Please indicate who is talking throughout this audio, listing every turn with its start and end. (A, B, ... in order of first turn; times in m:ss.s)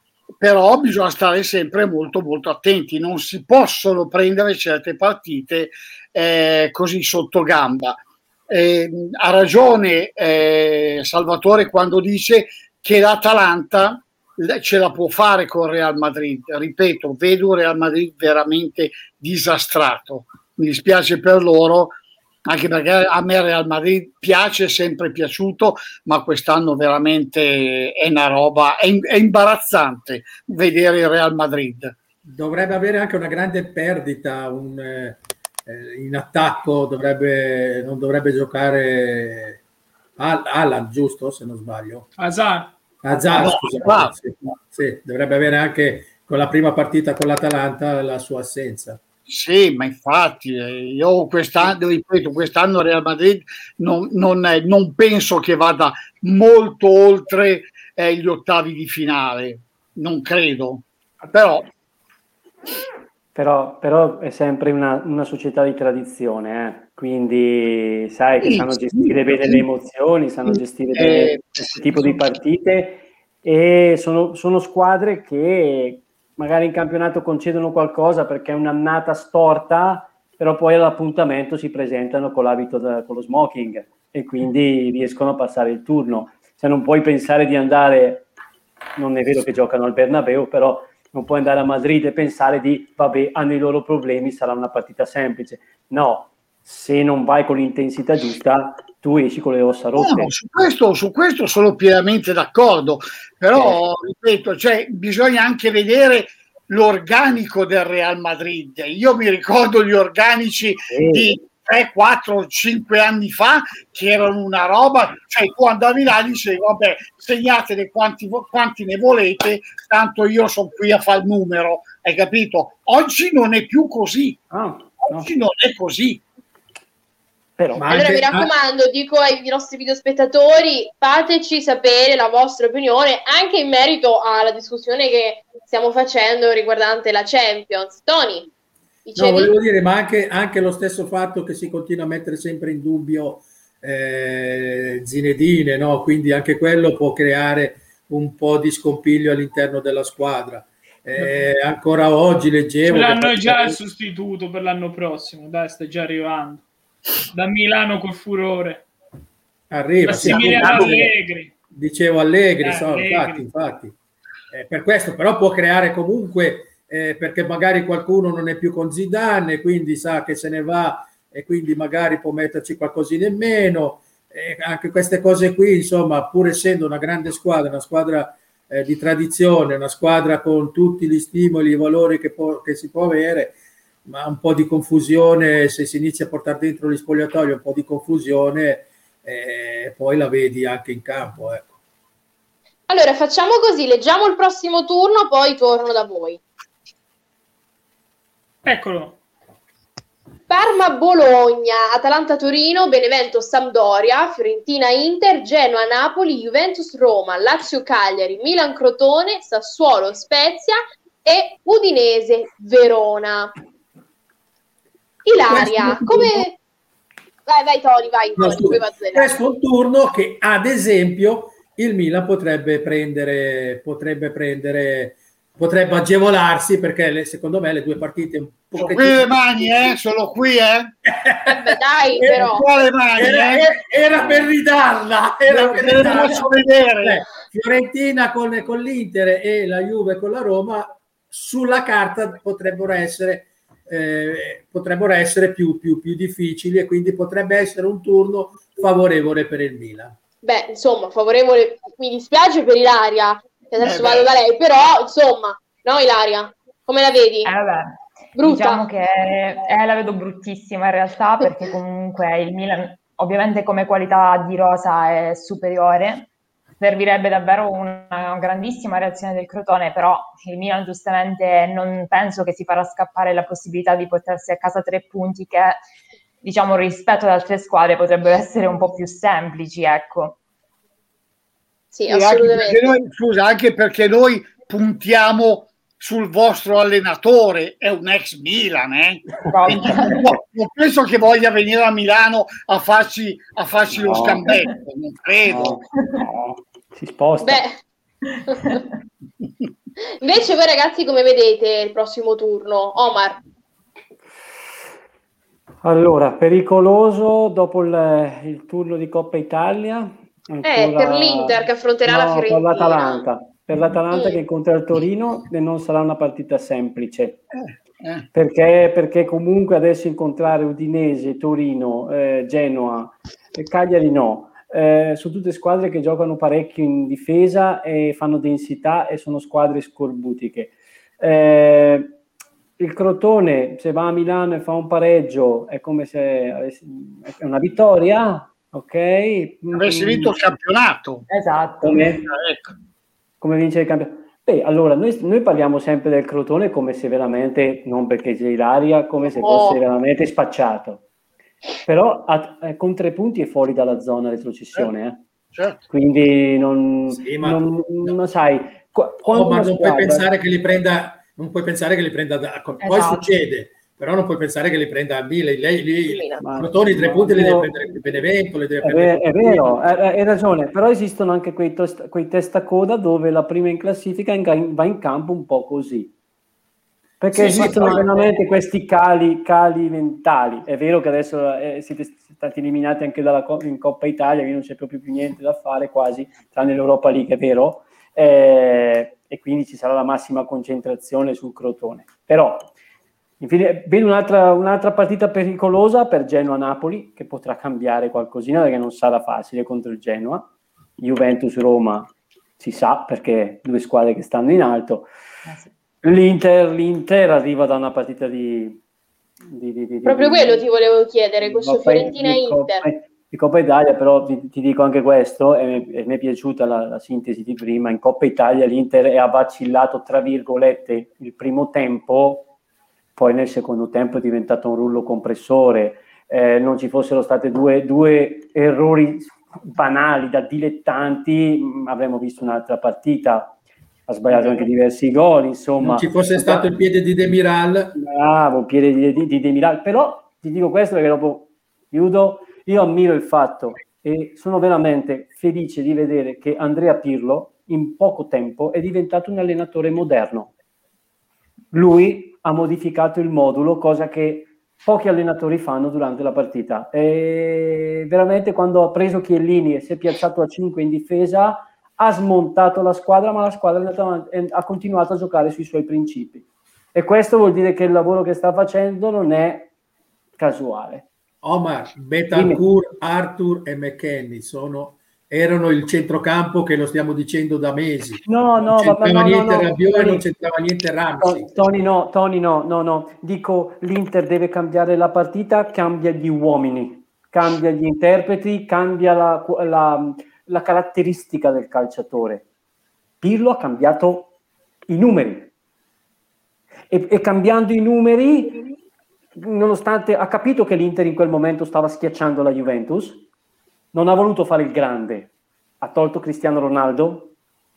0:00.4-0:32.0 A
0:32.3-0:39.6 B
0:40.2-0:42.1 B
0:42.2-0:42.7 C
0:43.0-0:49.0 B
0:43.3-0:44.2 A
0:49.3-1:01.7 A
1:03.4-1:28.3 D
1:08.4-1:09.6 A
1:10.5-1:12.2 A
1:29.0-1:40.3 D
1:40.0-2:04.5 A
1:50.9-1:51.3 D
2:04.5-2:05.3 D
2:05.0-2:06.2 A
2:07.6-2:07.9 D
2:07.8-2:08.5 B
2:07.9-2:18.5 E
2:19.0-2:19.6 E
2:19.2-2:33.8 B
2:32.9-2:36.6 C
2:37.3-2:38.9 C
2:39.7-2:41.1 B
2:40.0-2:41.5 C
2:40.3-2:40.9 A
2:41.7-2:44.0 B
2:42.6-2:43.4 C
2:44.5-3:03.6 B
3:04.1-3:11.7 B
3:12.9-3:16.4 E
3:18.6-3:19.2 C
3:20.5-3:33.5 E
3:35.2-3:36.6 E
3:35.5-3:36.4 B
3:37.5-3:39.4 E
3:38.4-3:49.9 B
3:48.8-3:51.0 A
3:51.0-3:52.4 B
3:51.5-3:52.6 E
3:52.3-3:53.7 A
3:53.2-4:10.2 B
3:55.5-3:57.2 A
4:10.4-4:17.5 E
4:13.8-4:14.3 A
4:17.4-4:35.8 F
4:18.4-4:18.8 E
4:36.4-4:40.4 F
4:41.9-4:42.9 E
4:42.1-4:55.8 A
4:49.5-4:50.2 D
4:49.5-4:50.3 F
4:54.0-4:54.5 D
4:55.5-4:57.6 D
4:57.4-4:57.8 E
5:00.2-5:03.4 E
5:05.8-5:17.4 D
5:10.6-5:13.2 E
5:14.1-5:14.4 E
5:17.5-5:18.3 A
5:18.3-5:32.2 D
5:32.8-5:40.3 D
5:39.7-5:41.3 A
5:41.3-5:42.0 F
5:41.8-5:42.2 D
5:42.1-5:42.7 A
5:43.4-5:51.0 D
5:49.2-5:49.8 E
5:51.8-5:55.2 D
5:55.5-5:55.8 A
5:55.9-6:00.3 D
5:57.1-5:58.2 B
5:59.3-6:09.8 B
6:02.8-6:03.3 F
6:06.0-6:06.5 E
6:06.4-6:07.7 D
6:08.8-6:16.1 D
6:17.2-6:32.7 D
6:17.3-6:18.1 B
6:17.6-6:18.0 A
6:33.4-6:45.1 D
6:46.0-6:48.8 D
6:49.5-6:50.6 D
6:50.0-6:52.9 E
6:51.4-7:02.5 D
7:03.2-7:13.6 D
7:14.1-7:16.7 D
7:14.3-7:14.7 B
7:15.8-7:18.0 B
7:18.0-7:30.5 D
7:31.7-7:49.7 D
7:50.4-7:51.1 D
7:51.4-8:01.5 B
7:52.3-7:52.6 D
7:58.3-8:00.3 D
8:01.2-8:12.4 D
8:13.2-8:14.3 D
8:14.9-8:15.5 D
8:16.9-8:18.6 D
8:19.4-8:23.2 D
8:23.9-8:25.3 D
8:25.8-8:27.3 D